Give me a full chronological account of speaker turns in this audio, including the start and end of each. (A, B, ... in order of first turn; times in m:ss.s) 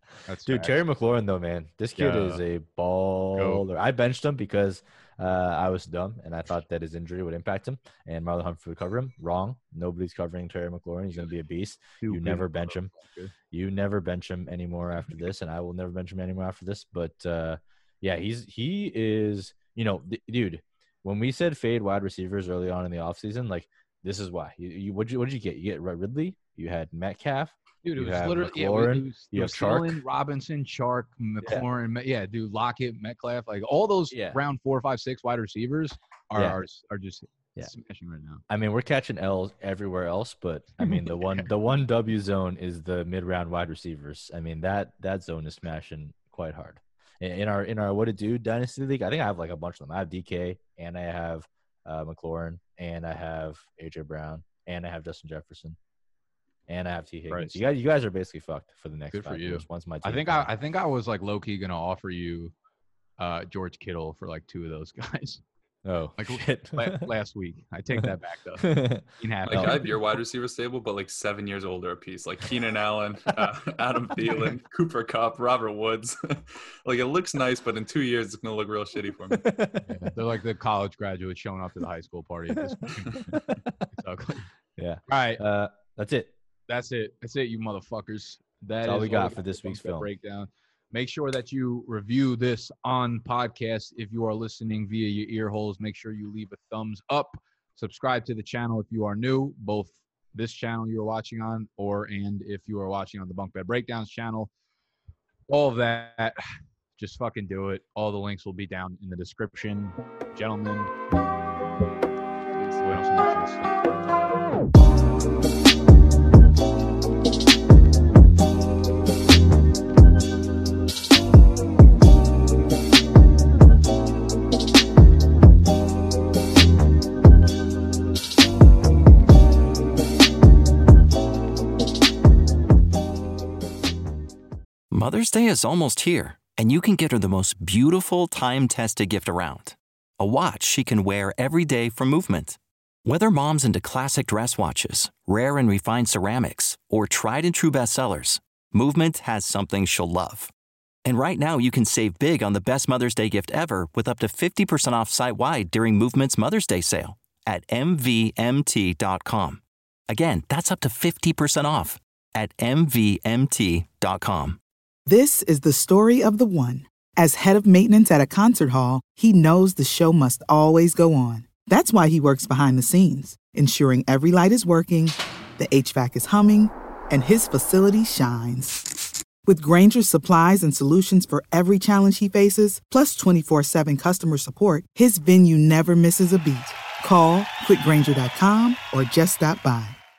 0:00.2-0:00.8 A
0:00.4-0:12.9 B
0:02.0-0:02.4 A
0:03.3-0:03.6 A
0:12.0-0:13.3 A
0:13.5-0:30.0 B
0:27.8-0:38.4 A
0:34.1-0:34.4 B
0:36.3-0:36.6 B
0:38.5-0:55.8 B
0:40.8-0:41.5 A
0:56.7-1:00.5 B
0:57.3-0:57.6 A
0:59.1-1:02.5 A
1:03.2-1:05.4 A
1:05.8-1:07.1 B
1:06.2-1:10.0 A
1:08.6-1:09.8 B
1:09.5-1:19.5 C
1:19.4-1:19.9 B
1:19.8-1:24.5 A
1:23.3-1:23.7 B
1:24.8-1:26.3 B
1:25.1-1:25.4 A
1:26.7-1:44.5 A
1:28.8-1:30.1 B
1:45.5-1:46.4 A
1:47.0-1:50.9 A
1:52.6-1:54.5 A
2:14.9-2:30.5 D
2:31.0-2:44.6 D
2:45.0-3:10.0 E